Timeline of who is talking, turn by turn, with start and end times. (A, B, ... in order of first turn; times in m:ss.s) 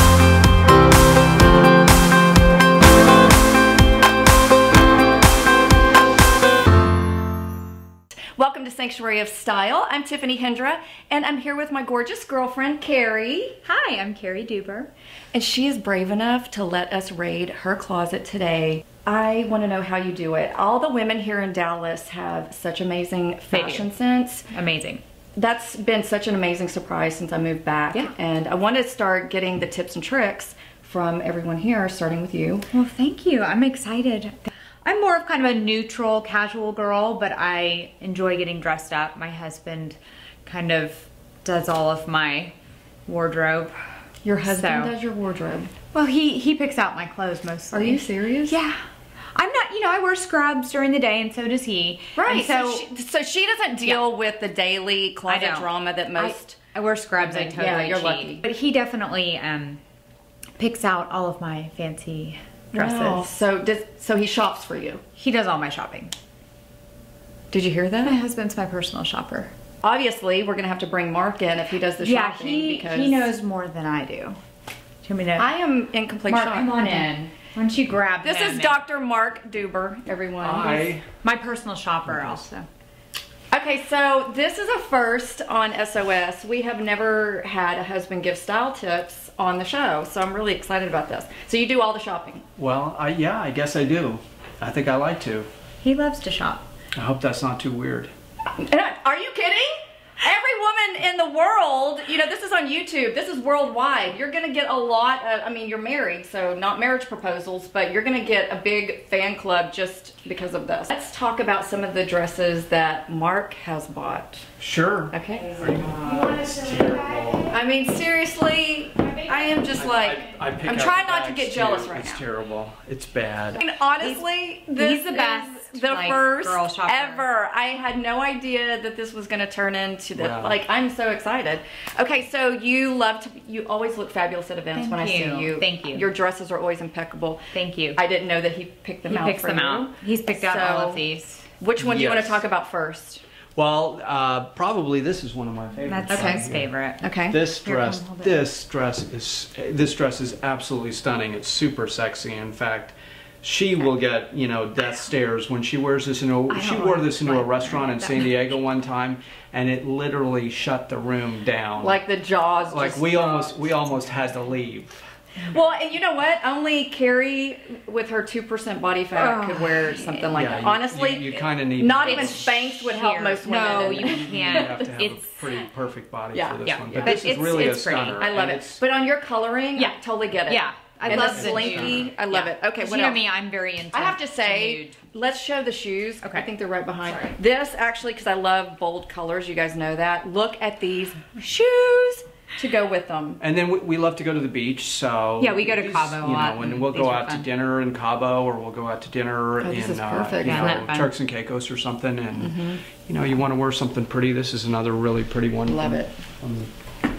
0:08.4-0:13.6 A
0:13.6-0:14.9 B
0:15.3-0:24.4 A
0:23.5-0:23.9 B
0:24.5-0:25.0 B
0:25.4-0:32.7 A
0:32.7-0:42.5 B
0:43.0-0:43.8 B
0:44.2-0:45.7 A
0:44.4-0:44.9 B
0:45.9-0:48.8 B
0:47.7-0:48.6 A
0:49.3-0:52.8 B
0:52.2-0:56.6 A
0:55.3-0:59.8 B
0:57.2-0:58.4 A
1:00.6-1:03.3 B
1:02.7-1:05.0 A
1:05.2-1:06.1 B
1:07.5-1:08.2 A
1:08.0-1:09.5 B
1:09.8-1:13.3 A
1:12.0-1:14.4 B
1:15.0-1:15.5 B
1:15.4-1:17.1 A
1:16.3-1:18.7 B
1:18.2-1:20.9 A
1:20.4-1:21.0 C
1:21.2-1:22.6 B
1:22.0-1:22.4 C
1:23.5-1:32.4 A
1:32.6-1:35.5 C
1:35.8-1:36.6 B
1:36.9-1:38.1 C
1:38.5-1:54.4 A
1:54.6-1:57.5 C
1:55.1-1:55.5 A
1:55.4-1:57.5 B
1:57.5-2:02.2 A
1:59.8-2:03.6 C
2:03.6-2:21.0 A
2:04.0-2:07.2 B
2:10.2-2:10.6 C
2:14.7-2:16.1 B
2:17.5-2:18.0 B
2:19.1-2:21.4 B
2:21.6-2:23.2 A
2:21.8-2:22.4 C
2:23.6-2:26.7 C
2:25.9-2:28.5 B
2:26.1-2:26.5 A
2:27.0-2:27.4 A
2:27.3-2:42.0 C
2:36.5-2:38.6 B
2:41.8-2:43.8 A
2:42.7-2:45.0 C
2:45.4-2:54.9 A
2:49.1-2:50.3 B
2:50.3-2:52.4 C
2:52.0-2:55.4 B
2:53.8-2:58.8 C
2:56.3-2:57.2 A
2:56.6-2:58.2 B
2:58.2-3:03.2 A
2:59.7-3:05.0 B
3:01.0-3:02.0 C
3:03.9-3:13.4 A
3:06.2-3:06.5 B
3:07.0-3:07.3 B
3:13.4-3:26.7 C
3:15.4-3:17.5 B
3:19.6-3:20.8 A
3:20.4-3:21.1 B
3:22.3-3:22.8 A
3:25.6-3:26.1 A